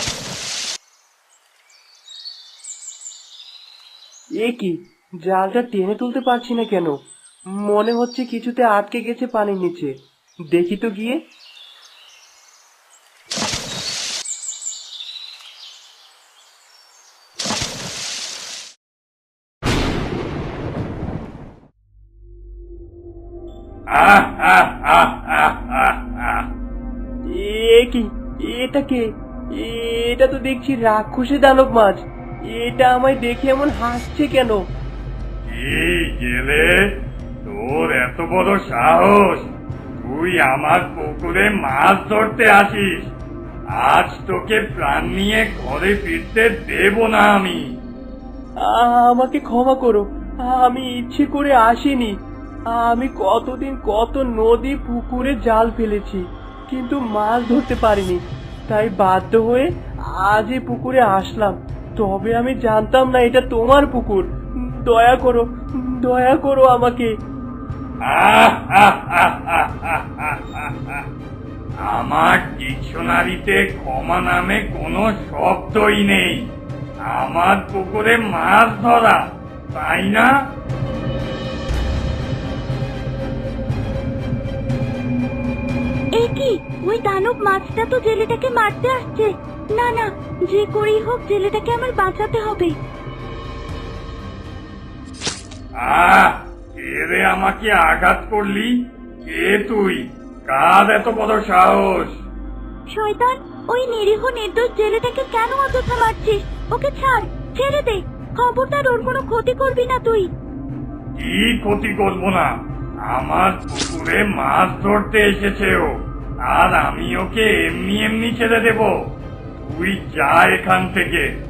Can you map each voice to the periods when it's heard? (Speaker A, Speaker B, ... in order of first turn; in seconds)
Speaker A: 4.4-7.0, 7.5-9.9, 10.5-11.2, 27.3-32.0, 32.5-34.6, 48.6-52.1, 52.7-67.1
Speaker B: 23.9-26.5, 35.5-43.1, 43.8-47.6, 68.1-71.0, 71.8-76.5, 77.0-79.2, 79.7-80.3, 95.8-102.2, 111.2-112.5, 113.1-115.9, 116.5-118.9, 119.6-121.3
Speaker C: 86.2-92.7, 102.9-110.3